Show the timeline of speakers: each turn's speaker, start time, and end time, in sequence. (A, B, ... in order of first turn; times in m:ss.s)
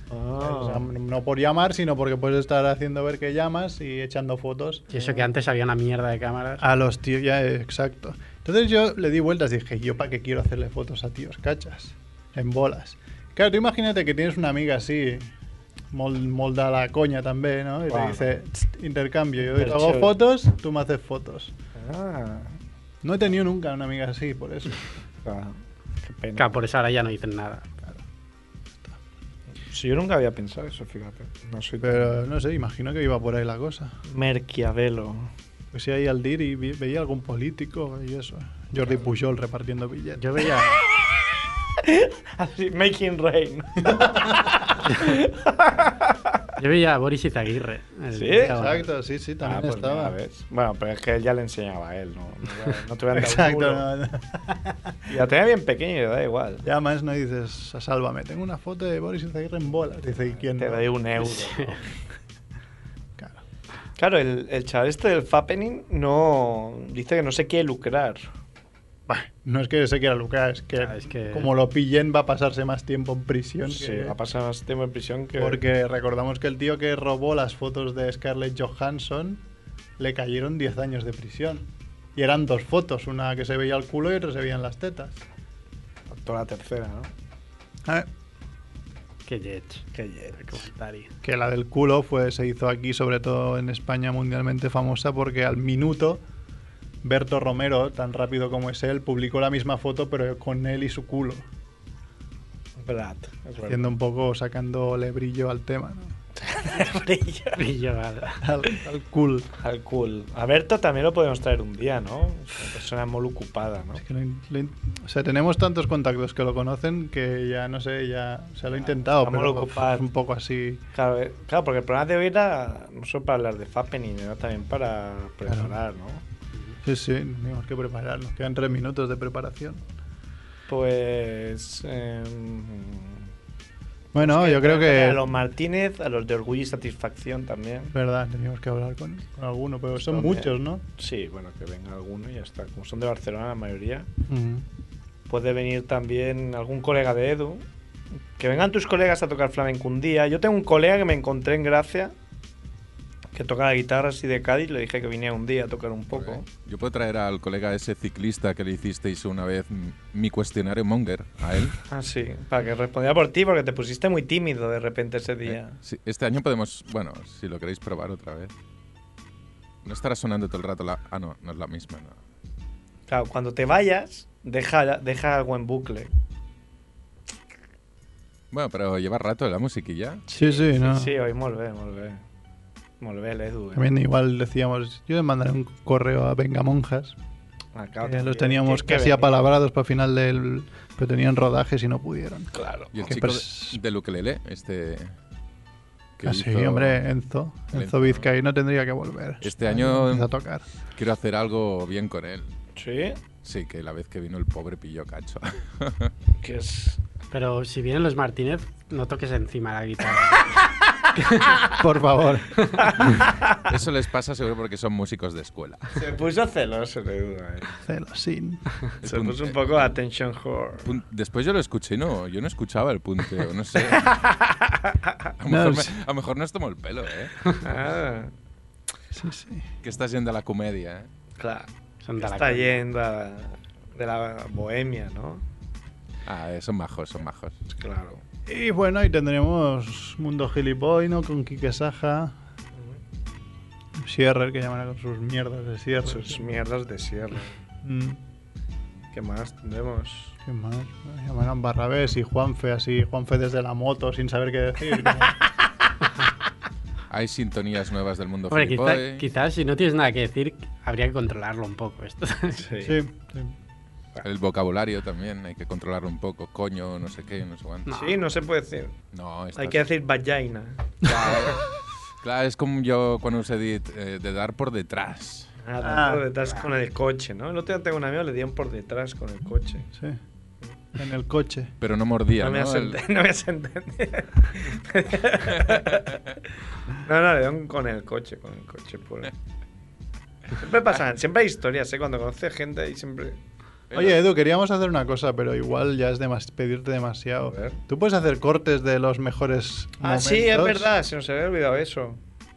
0:00.1-0:00.8 A
0:00.4-0:05.1 B
0:04.9-0:06.6 C
0:06.6-0:15.3 B
0:15.9-0:21.5 B
0:17.9-0:18.3 A
0:19.4-0:20.1 A
0:21.7-0:22.6 A
0:23.0-0:24.8 B
0:25.2-0:26.5 A
0:26.4-0:27.8 C
0:29.7-0:32.2 A
0:31.8-0:33.9 B
0:34.1-0:35.3 A
0:35.7-0:40.4 B
0:40.2-0:40.8 C
0:41.8-0:46.5 A
0:43.8-0:44.2 B
0:44.9-0:45.2 C
0:46.6-0:48.8 C
0:48.1-0:48.6 A
0:48.6-0:50.1 B
0:49.4-0:53.8 A
0:53.1-0:55.0 B
0:55.1-0:56.6 A
0:56.6-1:00.9 B
1:00.4-1:01.8 A
1:01.4-1:01.7 C
1:04.0-1:08.3 A
1:09.1-1:14.2 B
1:10.8-1:11.5 C
1:13.6-1:15.6 A
1:15.4-1:19.4 B
1:20.0-1:25.2 B
1:26.1-1:27.1 A
1:29.2-1:29.8 C
1:29.9-1:30.7 A
1:30.4-1:31.1 C
1:31.2-1:36.2 B
1:37.0-1:41.4 B
1:42.8-1:43.9 A
1:43.6-1:46.1 B
1:46.4-1:47.6 A
1:47.5-1:48.4 C
1:48.4-1:49.5 B
1:49.6-1:54.0 A
1:54.0-2:00.8 B
1:58.7-2:00.0 A
2:00.9-2:06.2 A
2:05.4-2:05.7 B
2:06.8-2:09.8 B
2:10.7-2:13.3 A
2:14.1-2:15.2 B
2:14.2-2:17.9 A
2:17.9-2:20.8 B
2:20.0-2:24.1 A
2:24.3-2:24.6 B
2:25.3-2:27.6 A
2:28.4-2:32.1 A
2:33.3-2:36.4 A
2:36.2-2:41.8 D
2:41.9-2:45.8 A
2:45.5-2:48.5 D
2:49.8-2:52.2 D
2:53.1-2:56.1 A
2:58.5-3:00.2 D
3:00.3-3:01.1 B
3:00.3-3:02.2 A
3:03.0-3:03.9 A
3:03.7-3:07.1 B
3:07.7-3:09.3 A
3:08.0-3:12.5 B
3:12.5-3:13.0 A
3:12.9-3:15.1 D
3:13.1-3:13.8 B
3:16.2-3:17.0 D
3:16.2-3:20.6 B
3:17.7-3:18.2 D
3:19.4-3:20.3 D
3:21.0-3:22.5 D
3:22.8-3:23.2 A
3:23.4-3:26.1 D
3:26.4-3:27.0 A
3:27.3-3:30.6 C
3:31.1-3:31.7 C
3:31.7-3:33.2 B
3:32.8-3:33.4 A
3:33.6-3:35.9 D
3:35.9-3:37.7 A
3:37.8-3:38.6 B
3:39.0-3:39.9 D
3:39.0-3:40.9 A
3:40.8-3:44.2 D
3:44.0-3:45.2 A
3:45.4-3:47.5 D
3:45.5-3:45.9 B
3:47.6-3:48.3 A
3:49.1-3:49.6 B
3:49.8-3:51.1 D
3:51.4-3:55.4 A
3:52.0-3:52.8 C
3:56.2-3:57.5 D
3:57.7-3:58.2 A
3:58.4-4:02.4 B
4:04.0-4:06.5 B
4:06.0-4:07.5 A
4:07.8-4:08.2 B
4:09.1-4:10.3 A
4:10.4-4:15.4 B
4:17.1-4:19.2 D
4:18.5-4:22.6 C
4:22.5-4:23.0 A
4:22.8-4:23.5 B
4:24.2-4:27.9 D
4:27.9-4:28.1 C
4:27.9-4:28.9 A
4:29.1-4:29.8 D
4:29.6-4:30.8 A
4:31.0-4:31.7 D
4:32.2-4:35.5 D
4:35.6-4:39.8 A
4:35.8-4:36.2 B
4:39.9-4:40.2 B
4:41.0-4:41.7 B
4:41.8-4:43.0 D
4:42.4-4:46.2 A
4:46.9-4:49.3 A
4:50.5-4:53.4 A
4:53.9-4:54.2 D
4:53.9-5:00.9 B
4:57.4-4:57.8 A
5:00.0-5:02.2 A